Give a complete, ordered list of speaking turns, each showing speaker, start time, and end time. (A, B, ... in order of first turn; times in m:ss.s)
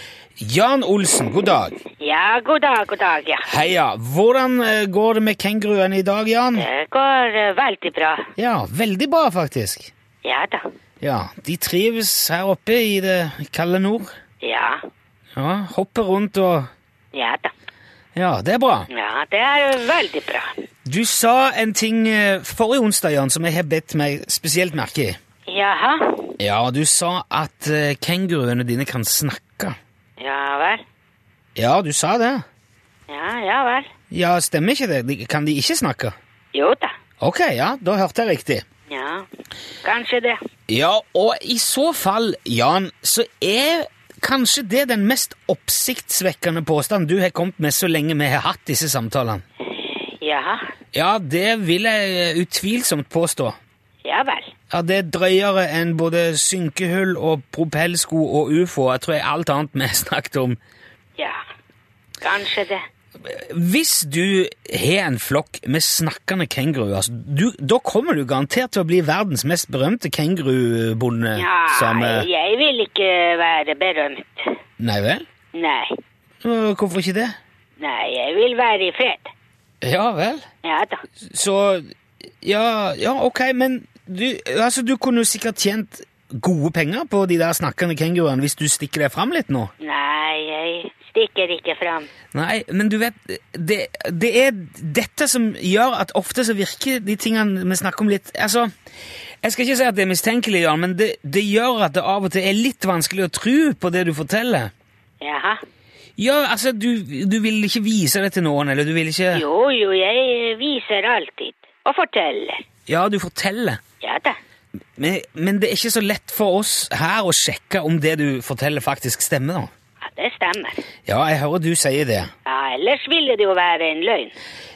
0:00.4-0:01.8 A
0:02.0-0:03.5 B
0:03.4-0:06.6 A
0:06.5-0:08.3 B
0:08.4-0:09.9 A
0:10.2-0:10.6 B
0:11.0-0:14.1 A
0:14.4-0:14.8 B
0:15.4-0:16.7 A
0:17.1-0:17.5 B
0:18.1-0:18.9 A
0:18.9-0:20.6 B
0:20.8-0:25.2 A
0:25.5-0:26.4 B
0:26.4-0:29.8 A
0:30.2-0:30.8 B
0:31.6-0:32.4 A
0:33.1-0:33.9 B
0:34.1-0:36.1 A
0:36.5-0:36.9 B
0:37.2-0:38.6 A
0:38.9-0:39.3 B
0:39.8-0:40.4 B
0:40.7-0:49.4 A
0:49.7-0:50.6 B
0:50.9-0:53.6 A
0:54.0-0:54.5 B
0:54.7-1:00.6 A
1:02.2-1:02.8 B
1:03.2-1:12.3 A
1:11.4-1:14.6 B
1:14.8-1:15.2 A
1:15.5-1:15.9 B
1:16.4-1:17.4 A
1:17.8-1:19.3 B
1:19.8-1:20.4 A
1:20.6-1:21.0 B
1:21.2-1:21.9 A
1:22.4-1:29.7 A
1:29.8-1:32.1 B
1:32.3-1:38.7 A
1:39.4-1:44.7 A
1:45.2-1:45.6 B
1:46.2-1:49.4 A
1:49.3-1:52.6 B
1:52.9-1:53.8 A
1:54.0-1:54.4 B
1:55.0-1:59.7 A
2:00.0-2:00.8 B
2:01.0-2:02.3 A
2:02.4-2:04.3 B